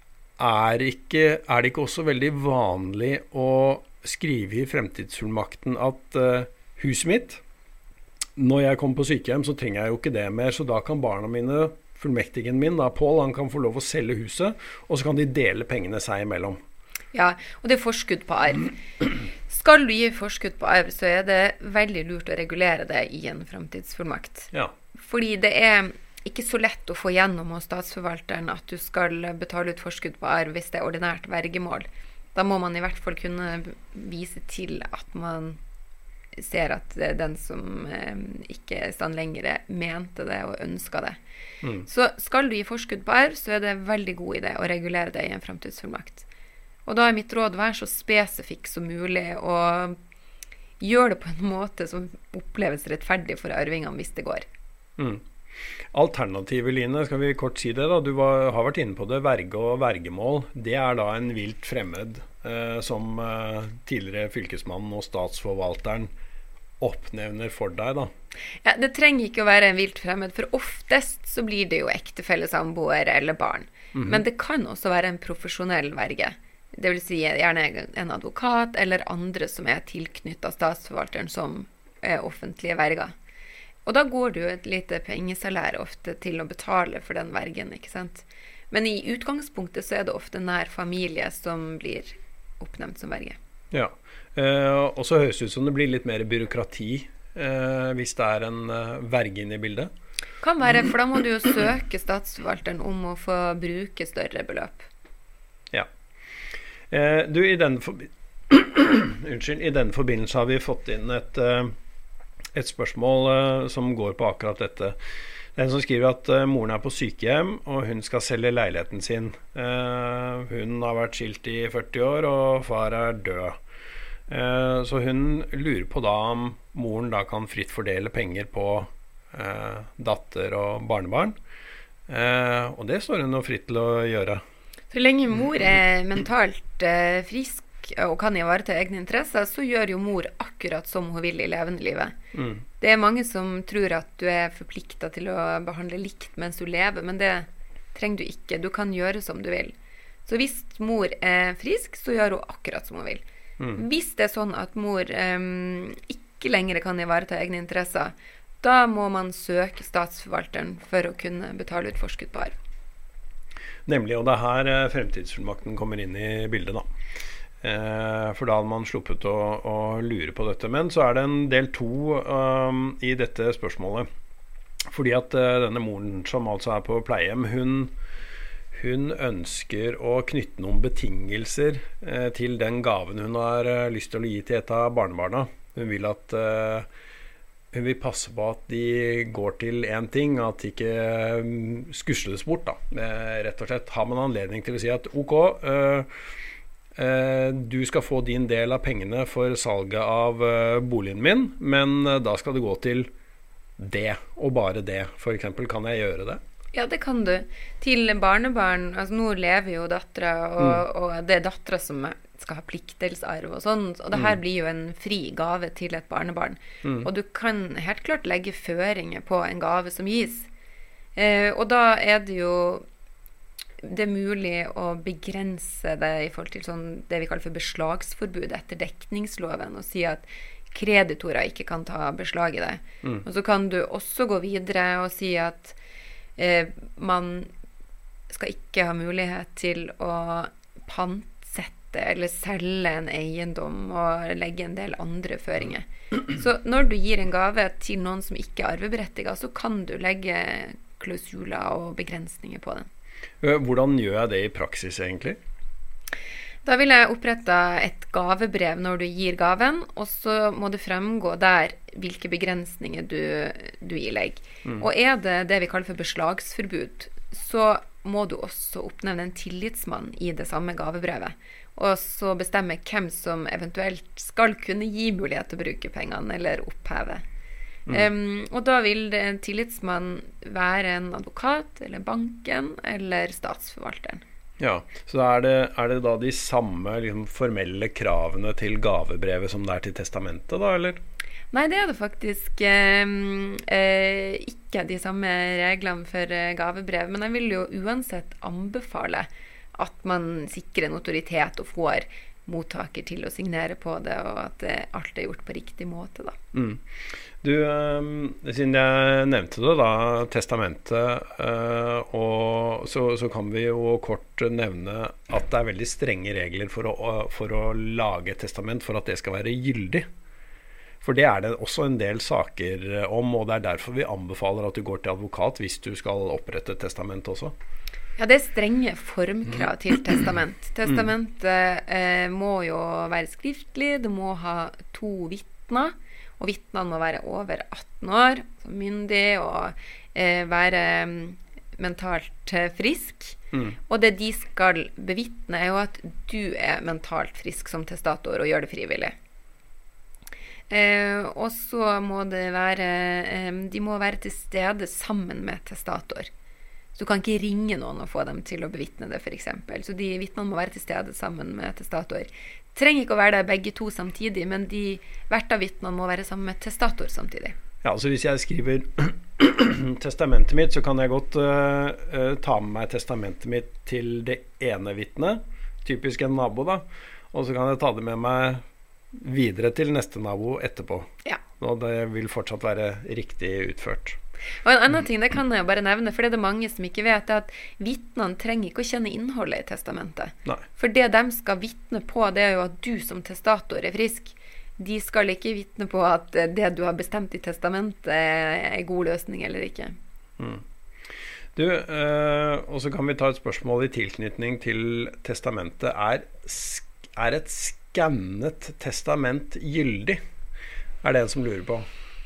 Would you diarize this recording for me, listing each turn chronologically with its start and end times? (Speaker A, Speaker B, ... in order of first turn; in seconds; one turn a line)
Speaker A: 0.4-7.4
Speaker A: 8.3-16.6
Speaker B: 17.1-35.6
Speaker B: 36.4-41.2
Speaker B: 41.8-46.2
Speaker B: 46.9-50.0
Speaker B: 50.8-54.4
Speaker A: 55.0-55.2
Speaker A: 55.9-66.1
Speaker A: 66.8-68.1
Speaker B: 68.6-83.1
Speaker A: 73.9-74.2
Speaker B: 83.8-93.4
Speaker A: 93.7-99.9
Speaker B: 100.4-104.9
Speaker A: 106.9-111.7
Speaker A: 112.5-115.0
Speaker A: 115.5-123.6
Speaker A: 124.3-131.3
Speaker A: 132.1-134.4
Speaker B: 134.9-142.2
Speaker A: 142.3-142.6
Speaker B: 142.8-149.7
Speaker B: 150.2-153.2
Speaker B: 153.7-162.5
Speaker A: 163.8-166.8
Speaker A: 167.6-174.1
Speaker A: 174.9-177.9
Speaker A: 178.7-186.9
Speaker A: 187.7-196.1
Speaker A: 196.9-203.1
Speaker A: 203.8-206.4
Speaker B: 206.7-220.5
Speaker A: 216.8-217.1
Speaker B: 221.2-222.8
Speaker B: 223.8-235.8
Speaker B: 236.4-237.5
Speaker B: 238.3-252.9
Speaker A: 253.4-255.4
Speaker B: 256.6-277.2
Speaker B: 277.9-284.2
Speaker A: 284.6-291.0
Speaker B: 291.5-306.4
Speaker A: 306.5-320.1
Speaker A: 321.0-327.5
Speaker B: 328.2-349.1
Speaker B: 350.7-356.3
Speaker B: 356.9-367.6
Speaker A: 367.8-378.6
Speaker A: 379.1-384.2
Speaker B: 384.6-399.9
Speaker A: 400.4-400.6
Speaker A: 401.5-410.2
Speaker A: 411.0-411.9